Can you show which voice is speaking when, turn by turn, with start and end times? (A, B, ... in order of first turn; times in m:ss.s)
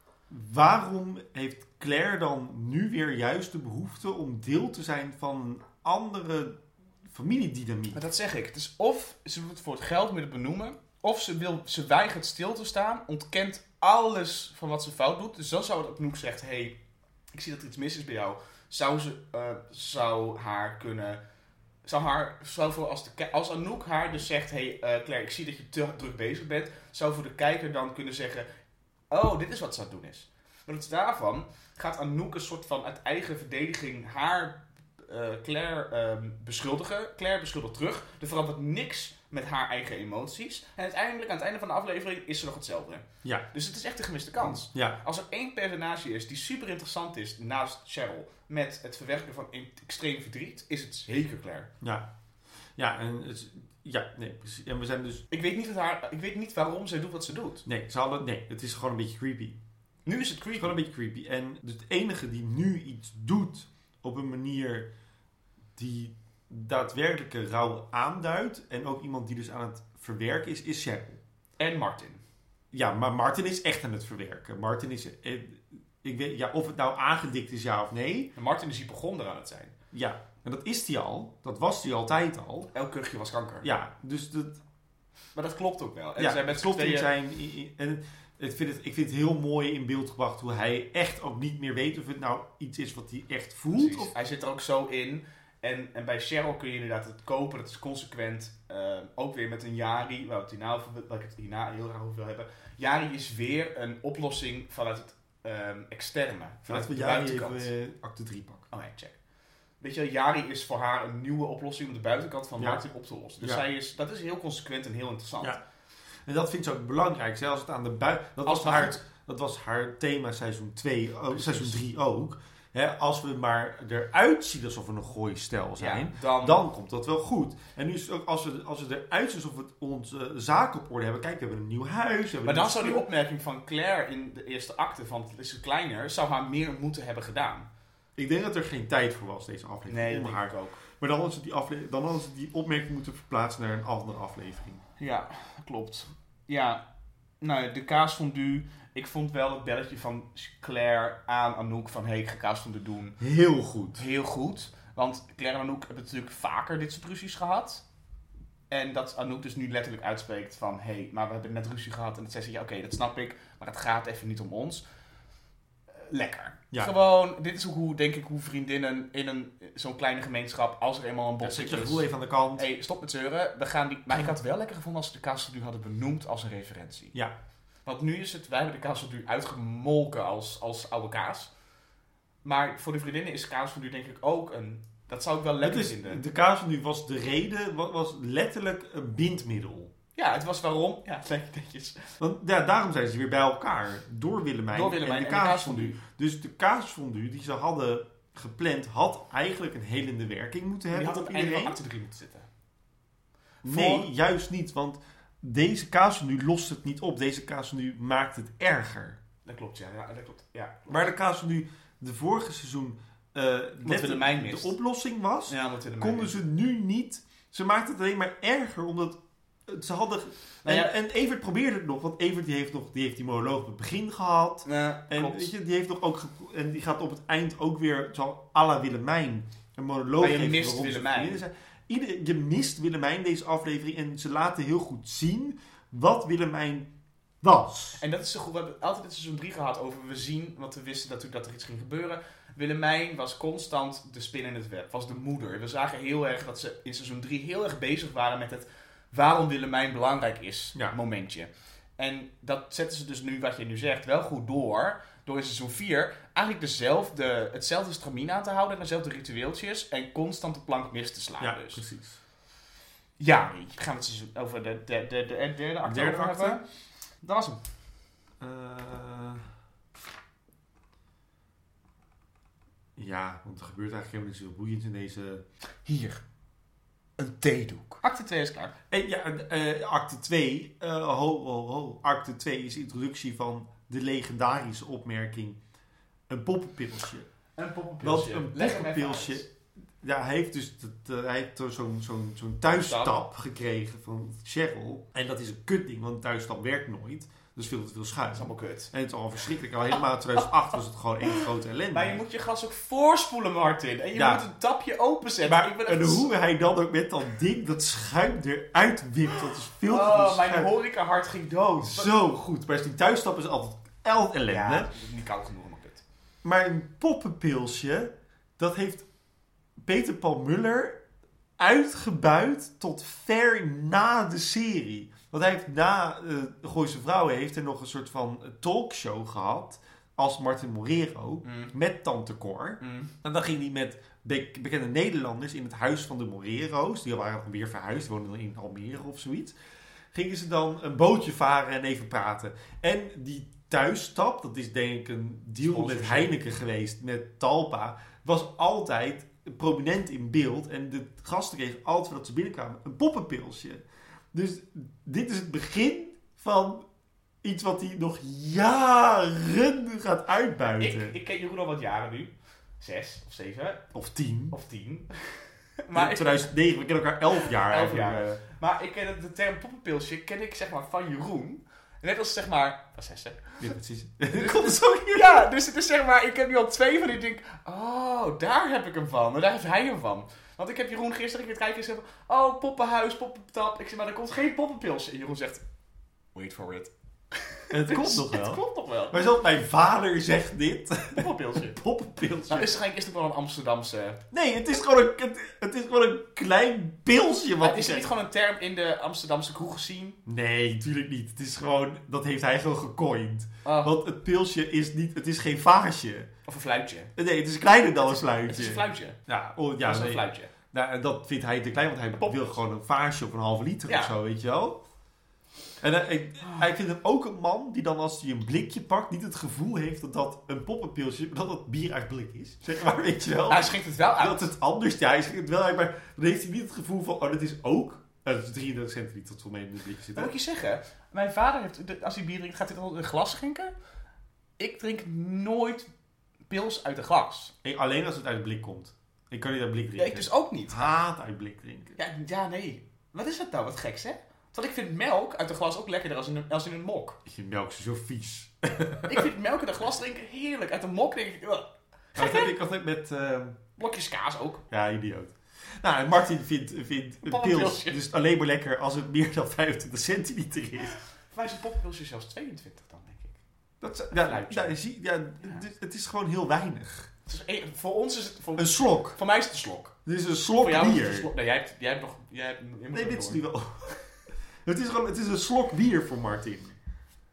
0:00.3-0:08.0 A
0:07.9-0:16.8 B
0:17.3-0:21.2 B
0:21.8-0:28.5 B
0:29.1-0:51.7 B
0:44.4-0:45.0 A
0:51.8-0:52.1 A
0:52.8-0:55.2 A
0:55.3-0:57.6 B
0:57.6-0:59.6 A
1:00.0-1:00.7 B
1:00.6-1:04.9 A
1:05.8-1:11.2 A
1:11.6-1:12.2 B
1:12.7-1:18.3 A
1:18.3-1:19.7 B
1:19.9-1:22.7 A
1:22.7-1:23.7 B
1:23.6-1:24.6 A
1:25.3-1:27.1 B
1:26.2-1:34.1 A
1:33.7-1:47.7 B
1:46.7-1:48.7 A
1:48.7-1:49.2 B
1:49.8-1:55.6 B
1:56.2-2:13.1 A
1:58.4-1:59.0 B
2:01.3-2:01.8 B
2:05.8-2:06.6 B
2:12.4-2:17.7 B
2:18.2-2:24.8 A
2:19.9-2:20.8 B
2:25.0-2:26.8 B
2:27.4-2:33.2 B
2:33.2-2:34.0 A
2:33.9-2:37.8 B
2:38.7-2:44.8 B
2:45.9-2:57.1 B
2:51.4-2:52.7 A
2:57.8-3:01.5 B
3:02.4-3:06.2 B
3:05.6-3:09.9 A
3:10.1-3:12.0 B
3:12.2-3:21.8 A
3:14.7-3:16.0 B
3:20.9-3:22.5 B
3:23.6-3:24.1 B
3:23.6-3:29.2 A
3:29.4-3:31.1 B
3:30.9-3:56.9 A
3:33.8-3:34.8 B
3:35.5-3:36.4 B
3:40.6-3:40.9 B
3:44.6-3:45.5 B
3:50.2-3:51.4 B
3:57.4-3:58.0 A
3:58.0-4:21.8 B
4:21.4-4:22.2 A
4:23.2-4:26.6 B
4:25.8-4:26.6 A
4:27.2-4:27.6 B
4:28.4-4:29.4 A
4:33.0-4:35.4 A
4:35.8-4:36.2 B
4:37.2-4:38.7 B
4:38.9-4:45.6 A
4:46.3-4:47.3 A
4:47.6-4:49.4 B
4:48.0-4:49.5 A
4:50.0-5:02.2 A
4:52.7-4:53.2 B
4:58.3-4:58.9 B
5:01.3-5:06.3 B
5:04.1-5:04.4 A
5:05.4-5:10.7 A
5:09.9-5:12.1 B
5:11.8-5:14.9 A
5:14.5-5:16.0 B
5:16.4-5:19.0 A
5:19.8-5:21.0 A
5:21.6-5:39.5 A
5:31.4-5:31.7 B
5:32.8-5:33.1 B
5:40.1-5:56.8 A
5:45.6-5:46.3 B
5:57.4-6:01.2 A
6:00.8-6:03.8 B
6:03.9-6:04.6 A
6:04.5-6:05.1 B
6:05.8-6:06.5 B
6:05.9-6:08.4 A
6:07.6-6:13.6 B
6:13.6-6:15.5 A
6:14.3-6:25.6 B
6:26.3-6:29.2 B
6:27.7-6:32.7 A
6:31.1-6:31.8 B
6:32.5-6:34.2 B
6:34.3-6:38.1 A
6:37.6-6:40.2 B
6:40.2-6:46.3 A
6:43.6-6:44.0 B
6:46.4-6:47.1 B
6:47.2-6:54.8 A
6:48.0-6:49.2 B
6:49.8-6:50.5 B
6:53.9-6:54.1 B
6:55.8-7:10.3 A
7:03.5-7:04.5 B
7:10.1-7:13.7 B
7:14.6-7:15.9 B
7:16.5-7:17.5 B
7:17.6-7:22.0 A
7:20.0-7:20.9 B
7:22.0-7:27.2 B
7:27.2-7:29.2 A
7:29.0-7:32.5 B
7:32.2-7:33.6 A
7:33.8-7:34.6 B
7:34.7-7:41.0 A
7:37.2-7:38.0 B
7:41.3-7:43.4 B
7:43.8-7:47.1 A
7:44.1-7:44.8 B
7:47.3-7:49.9 B
7:48.6-7:49.2 A
7:50.0-7:51.3 A
7:50.6-7:53.4 B
7:52.9-7:53.9 A
7:54.6-7:56.8 A